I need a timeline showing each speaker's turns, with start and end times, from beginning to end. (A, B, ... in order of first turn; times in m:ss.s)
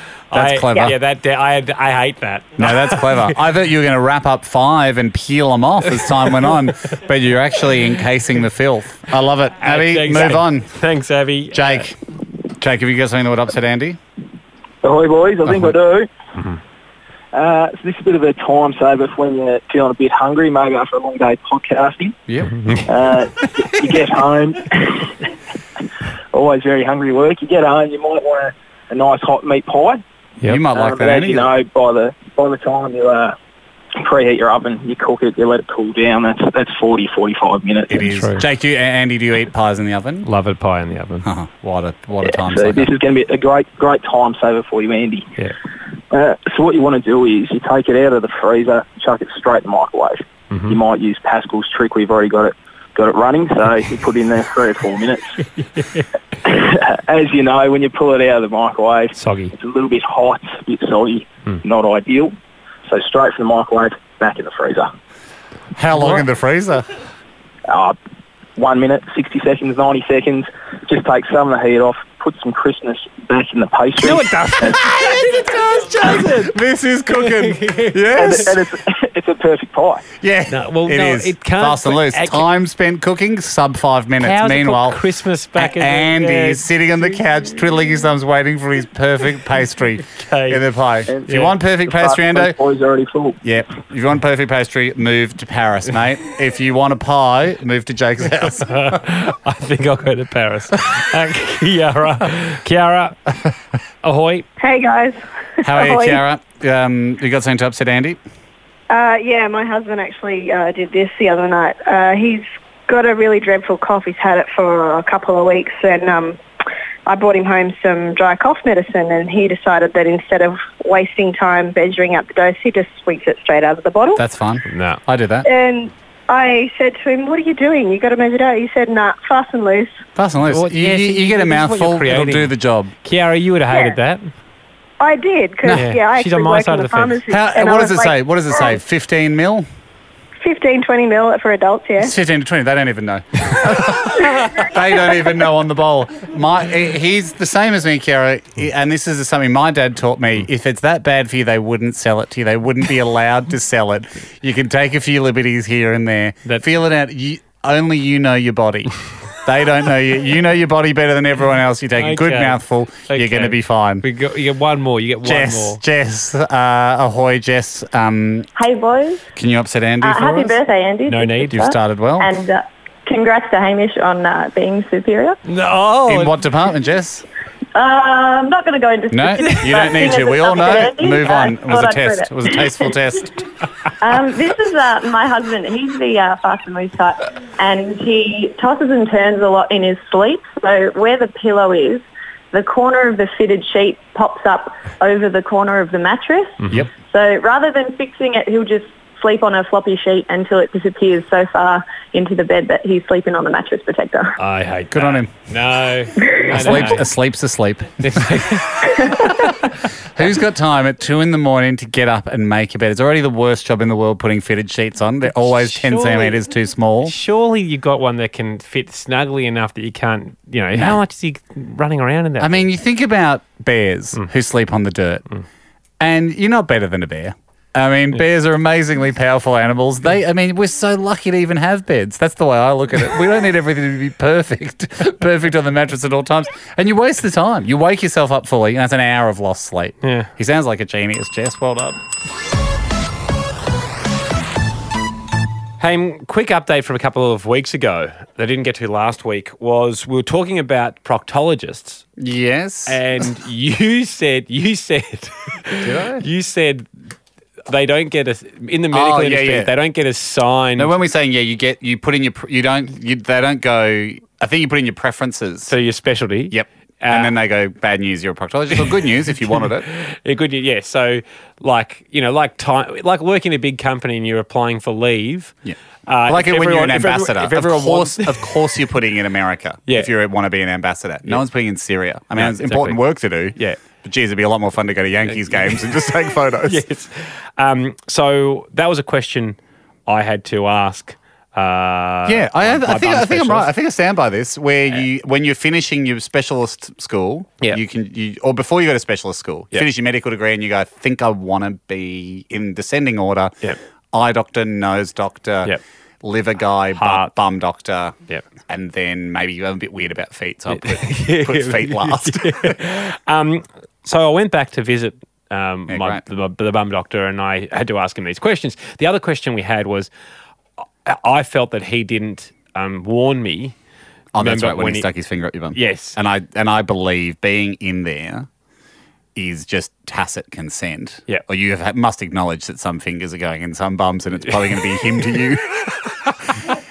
0:00.3-0:03.4 A
0:00.3-0:01.0 B
0:02.6-0:10.8 B
0:09.6-0:11.9 A
0:11.5-0:12.0 B
0:12.6-0:14.0 B
0:14.8-0:16.1 C
0:15.5-0:15.7 B
0:17.3-0:22.2 C
0:22.3-0:22.6 B
0:22.5-0:22.9 A
0:22.9-0:25.1 C
0:26.3-0:30.0 C
0:30.4-0:31.5 B
0:30.7-0:33.4 C
0:34.0-0:38.0 C
0:37.9-0:40.3 B
0:37.9-0:38.4 A
0:40.2-0:41.3 A
0:41.2-0:42.9 B
0:42.2-0:45.3 C
0:46.1-0:55.3 C
0:50.5-0:50.8 A
0:55.6-0:56.0 A
0:56.4-1:02.3 C
0:59.2-0:59.5 A
1:02.9-1:04.9 C
1:05.8-1:06.9 B
1:06.0-1:06.2 A
1:07.7-1:08.0 C
1:08.6-1:14.8 C
1:14.0-1:16.6 A
1:14.7-1:18.6 B
1:17.1-1:18.5 A
1:18.2-1:20.1 C
1:20.2-1:32.6 B
1:20.5-1:22.5 A
1:24.2-1:27.2 A
1:30.2-1:30.6 A
1:31.1-1:33.4 C
1:31.3-1:31.5 A
1:33.4-1:38.7 B
1:38.5-1:43.2 A
1:44.0-1:44.5 A
1:44.6-1:46.2 D
1:45.6-1:48.2 B
1:48.9-1:56.4 D
1:57.1-2:04.2 D
2:04.2-2:05.5 B
2:04.7-2:05.0 A
2:05.4-2:10.0 D
2:10.2-2:12.9 B
2:10.5-2:14.3 A
2:15.0-2:18.8 D
2:15.7-2:15.9 B
2:15.7-2:17.2 A
2:17.3-2:19.7 B
2:20.4-2:22.1 D
2:22.0-2:44.0 B
2:42.0-2:45.8 A
2:45.2-2:48.5 B
2:48.6-2:49.2 E
2:49.4-2:50.6 B
2:50.0-2:55.4 E
2:51.1-2:51.6 A
2:51.5-2:52.3 B
2:55.5-2:56.4 A
2:56.1-2:57.2 B
2:57.8-3:02.7 E
2:59.1-3:03.4 B
3:04.0-3:24.4 E
3:16.6-3:16.9 A
3:24.4-3:27.1 A
3:24.9-3:25.3 B
3:26.5-3:28.6 B
3:28.0-3:29.5 A
3:30.2-3:37.2 B
3:35.3-3:36.4 A
3:37.0-3:42.7 A
3:42.4-3:45.3 B
3:46.0-4:02.0 B
4:00.0-4:00.3 A
4:05.8-4:12.0 A
4:12.2-4:13.0 B
4:12.9-4:16.9 A
4:15.8-4:16.3 B
4:17.7-4:20.9 A
4:18.9-4:19.7 B
4:20.8-4:25.7 B
4:25.7-4:27.3 A
4:26.5-4:29.9 B
4:29.9-4:35.6 A
4:35.6-4:46.8 B
4:36.1-4:38.4 A
4:42.4-4:43.0 A
4:43.5-4:43.8 A
4:45.3-4:45.8 A
4:46.7-4:53.7 A
4:52.3-5:03.6 B
5:04.1-5:08.2 B
5:07.0-5:07.3 A
5:08.7-5:12.8 B
5:10.7-5:20.1 A
5:15.9-5:16.2 B
5:21.0-5:23.8 A
5:24.3-5:28.5 B
5:24.4-5:25.1 A
5:25.7-5:26.2 A
5:29.4-5:36.1 B